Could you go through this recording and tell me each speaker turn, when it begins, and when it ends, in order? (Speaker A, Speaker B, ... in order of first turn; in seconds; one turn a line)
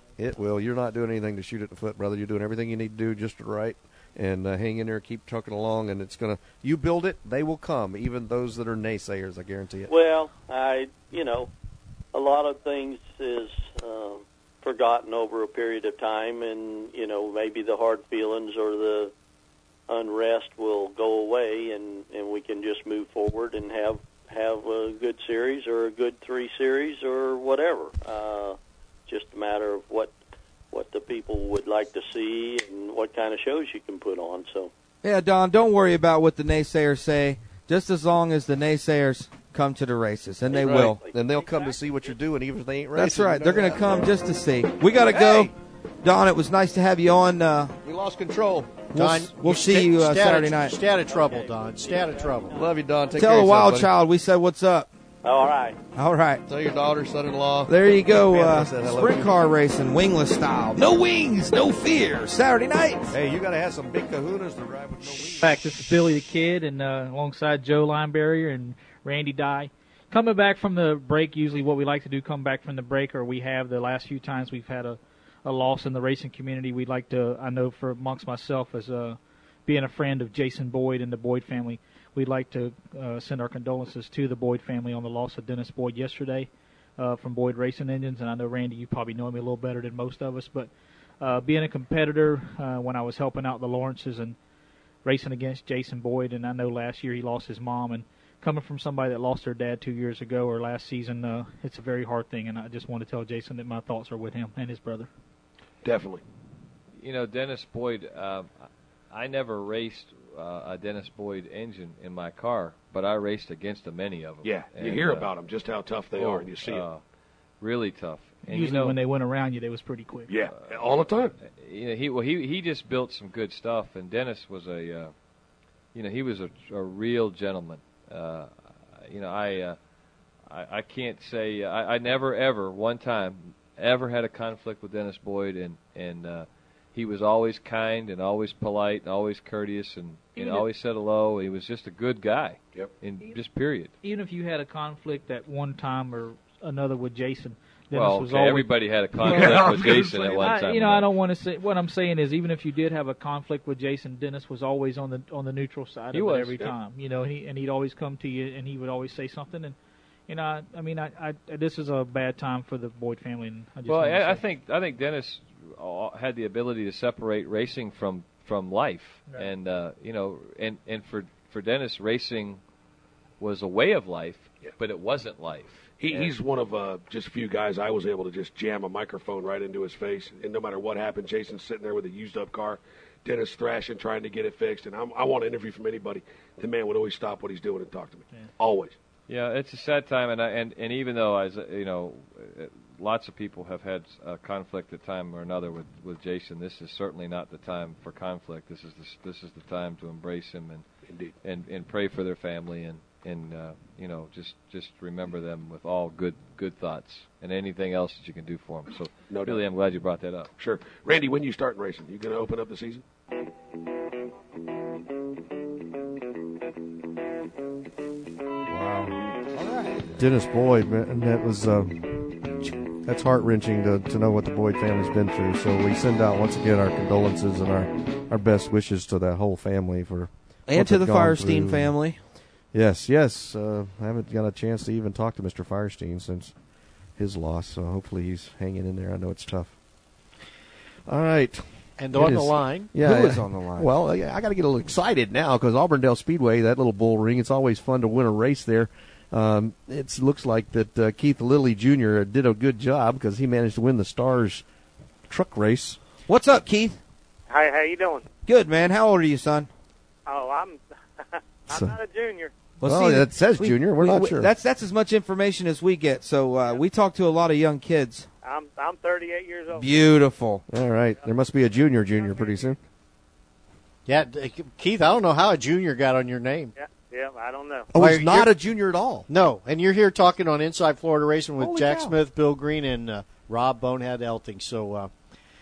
Speaker A: 0.2-9.9
Speaker B: 9.9-11.5
Speaker B: 12.1-19.1
Speaker B: 19.9-30.1
Speaker B: 30.7-34.7
Speaker C: 35.0-41.0
Speaker B: 40.5-42.1
Speaker A: 40.5-44.1
Speaker C: 43.0-47.8
Speaker A: 45.0-45.5
Speaker A: 47.8-48.9
Speaker C: 48.9-50.8
Speaker D: 49.0-52.6
Speaker B: 50.9-52.9
Speaker A: 52.5-53.9
Speaker C: 53.1-54.9
Speaker B: 55.2-55.8
Speaker C: 55.9-56.4
Speaker A: 56.5-59.3
Speaker C: 57.7-63.1
Speaker A: 63.1-65.6
Speaker E: 65.3-90.7
Speaker E: 91.2-94.4
Speaker E: 95.0-105.1
Speaker F: 105.8-106.2
Speaker G: 107.0-115.3
Speaker F: 114.4-116.9
Speaker G: 116.1-117.0
Speaker G: 117.6-119.0
Speaker E: 118.5-120.3
Speaker F: 120.3-121.3
Speaker G: 120.5-125.1
Speaker G: 125.9-129.8
Speaker G: 130.5-143.9
Speaker E: 140.4-140.7
Speaker E: 144.0-159.8
Speaker G: 147.9-151.1
Speaker F: 149.2-150.2
Speaker G: 156.1-156.7
Speaker E: 160.3-164.4
Speaker G: 163.8-172.6
Speaker G: 173.4-176.3
Speaker F: 176.0-188.9
Speaker G: 189.3-200.9
Speaker F: 201.1-201.3
Speaker G: 201.4-210.5
Speaker F: 209.3-209.6
Speaker F: 210.6-213.0
Speaker C: 219.6-220.0
Speaker A: 220.2-222.4
Speaker A: 223.0-231.9
Speaker C: 230.7-232.2
Speaker A: 232.7-236.5
Speaker A: 237.2-239.7
Speaker A: 241.1-254.6
Speaker D: 242.0-242.9
Speaker C: 243.0-243.9
Speaker A: 255.3-256.0
Speaker C: 256.3-257.0
Speaker H: 257.5-258.3
Speaker C: 258.5-259.7
Speaker H: 260.3-262.5
Speaker A: 261.7-262.0
Speaker C: 262.8-268.3
Speaker A: 262.9-264.5
Speaker H: 268.4-270.1
Speaker C: 269.7-270.6
Speaker A: 270.7-272.8
Speaker H: 272.1-272.8
Speaker D: 274.1-276.7
Speaker H: 276.8-277.9
Speaker A: 277.9-279.3
Speaker D: 278.0-278.5
Speaker D: 279.3-285.1
Speaker A: 281.6-282.2